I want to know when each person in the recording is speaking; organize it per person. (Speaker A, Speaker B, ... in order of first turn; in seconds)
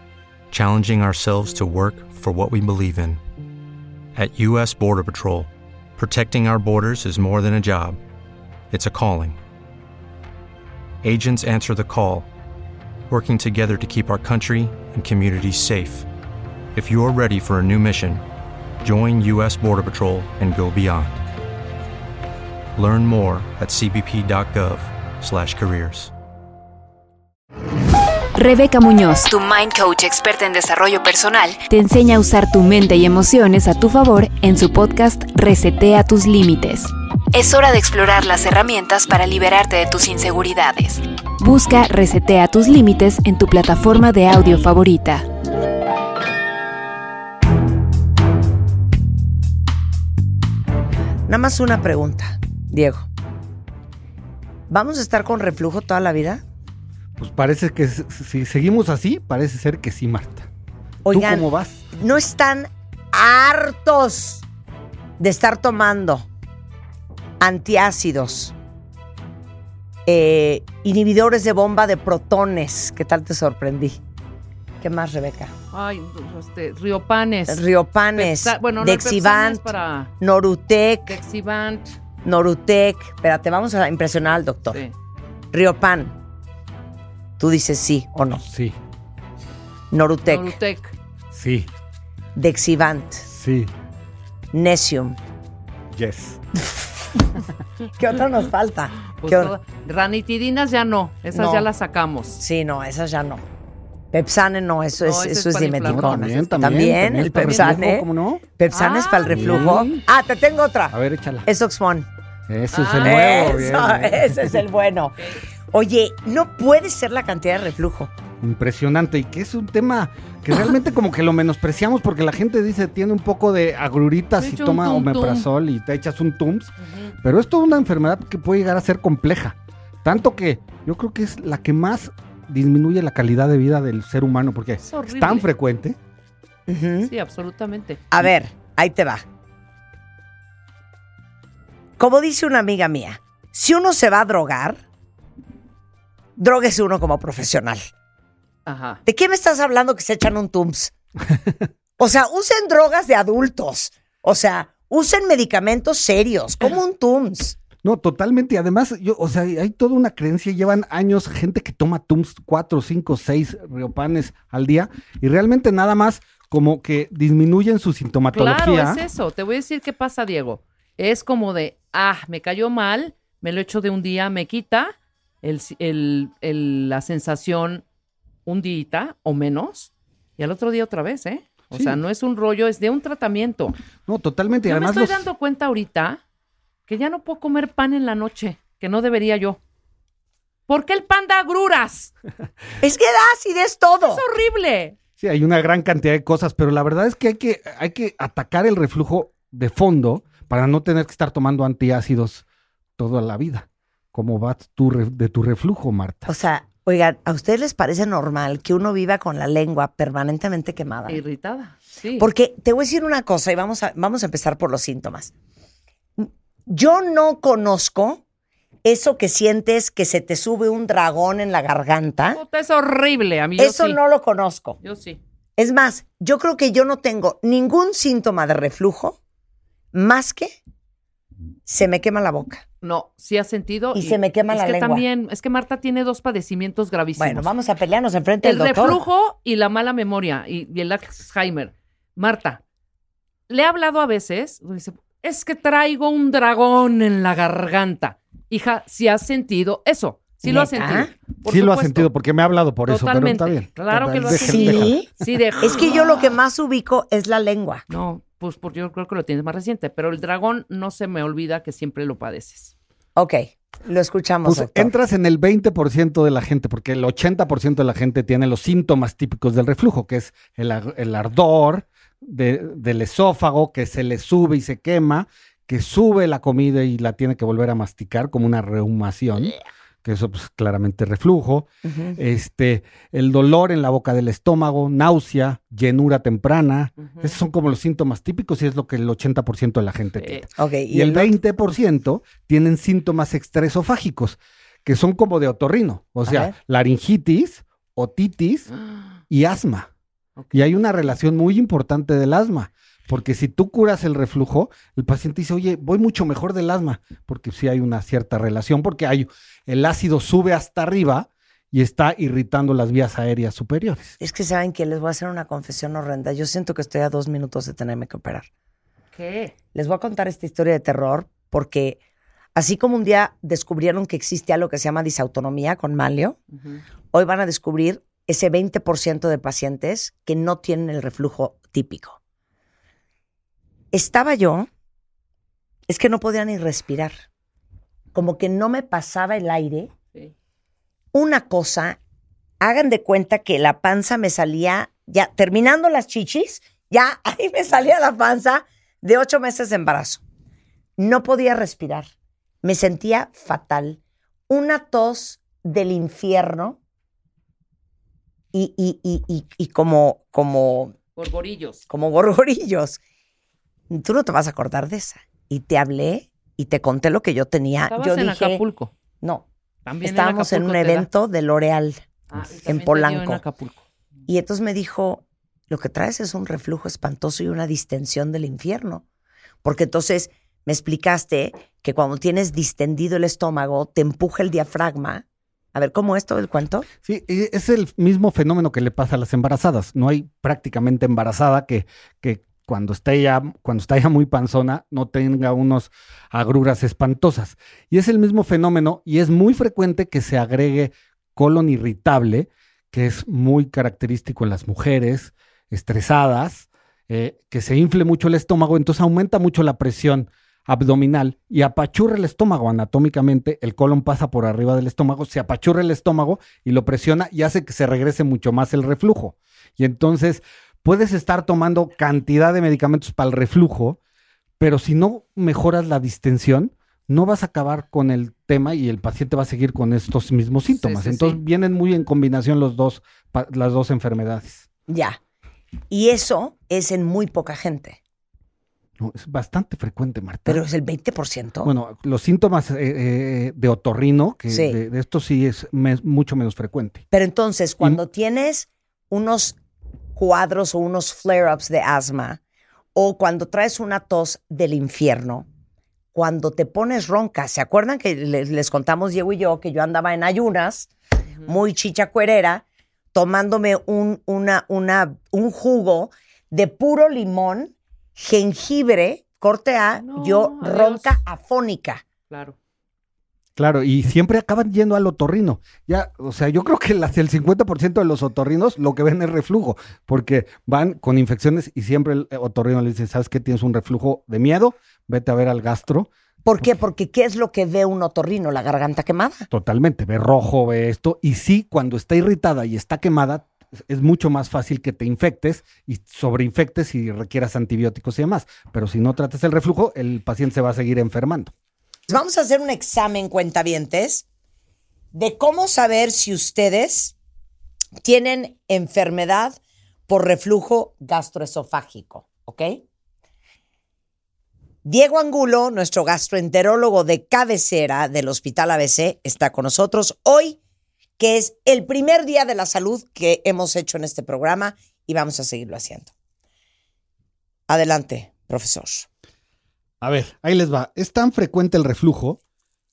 Speaker A: 0.5-3.2, 4.2-8.0, 8.7-9.4, 11.0-12.3, 13.1-16.1, 16.7-18.2, 18.8-21.3, 22.7-26.1
Speaker B: 28.3-45.2
Speaker C: 51.3-53.1, 54.7-56.4, 61.0-64.4, 65.2-66.3, 67.4-68.5, 70.0-74.0, 74.8-75.5, 77.5-79.7, 80.2-81.2, 82.2-84.8, 85.5-86.1, 87.4-88.4, 89.9-90.5, 92.3-93.2, 94.5-95.2, 98.0-99.5, 101.3-101.7, 102.4-103.4, 104.1-110.9, 111.5-112.1, 113.0-115.2, 115.7-118.1, 136.7-137.1, 138.1-139.2, 142.0-144.8, 146.4-147.9, 149.1-150.9, 152.0-157.6, 192.8-194.2, 206.2-211.2, 212.2-215.3, 216.2-218.2, 218.8-222.4, 223.6-224.8, 225.6-229.2, 229.9-230.6, 231.7-232.6, 233.9-235.0, 237.2-239.0, 250.4-251.1, 254.3-255.1, 255.6-257.8, 263.1-264.9, 281.8-282.2, 290.6-291.3, 296.2-296.5, 314.2-318.5, 319.7-322.0, 322.5-326.4, 327.1-332.2, 333.9-334.7, 335.9-337.2, 338.1-339.9, 341.1-342.0, 342.6-350.2, 351.0-352.1, 352.6-356.8, 358.5-360.9, 361.9-363.0, 363.9-368.6, 369.2-369.5, 370.0-372.0, 372.6-373.4, 374.3-379.0, 379.6-386.9, 434.9-435.2, 435.9-438.0, 440.4-441.7, 444.5-444.8, 447.1-449.6, 450.1-452.4, 452.9-455.5, 456.1-460.9, 461.4-472.0, 486.4-489.5, 502.1-504.2, 505.1-507.1, 508.0-512.8, 514.8-520.6, 521.2-526.1, 527.7-529.1
Speaker D: 57.2-60.5, 61.1-61.8, 88.4-88.8, 91.3-91.7, 93.3-93.7, 95.9-96.4, 105.8-108.4, 109.3-110.0, 110.9-111.5, 112.5-114.6, 118.4-136.0, 157.8-169.0, 181.7-182.0, 184.1-185.2, 195.2-202.4, 203.0-206.3, 251.4-255.3, 264.4-298.7, 299.3-299.9, 300.5-314.1, 387.0-424.0, 424.6-434.6, 439.0-440.6, 441.6-447.0, 473.6-486.1, 489.5-501.5, 530.0-532.4
Speaker E: 75.7-77.6, 78.1-80.1, 81.1-81.9, 90.3-90.9, 99.1-102.4, 105.0-106.5, 107.2-107.8, 108.7-109.9, 112.7-113.5, 124.4-125.5, 126.8-127.1, 134.8-135.5, 137.1-138.0, 148.7-149.0, 168.3-177.8, 178.4-183.8, 184.7-186.2, 186.9-189.6, 190.7-192.1, 194.0-194.9, 211.1-212.3, 222.3-224.0, 224.8-225.2, 232.8-237.5, 238.4-242.6, 243.5-252.1, 252.9-256.4, 257.9-262.7, 287.0-287.4, 290.2-290.4, 298.7-299.1, 300.4-300.6, 319.1-319.5, 361.1-361.8, 367.9-368.9, 369.9-371.1, 372.3-373.8, 430.7-431.4, 470.0-471.2, 472.3-472.6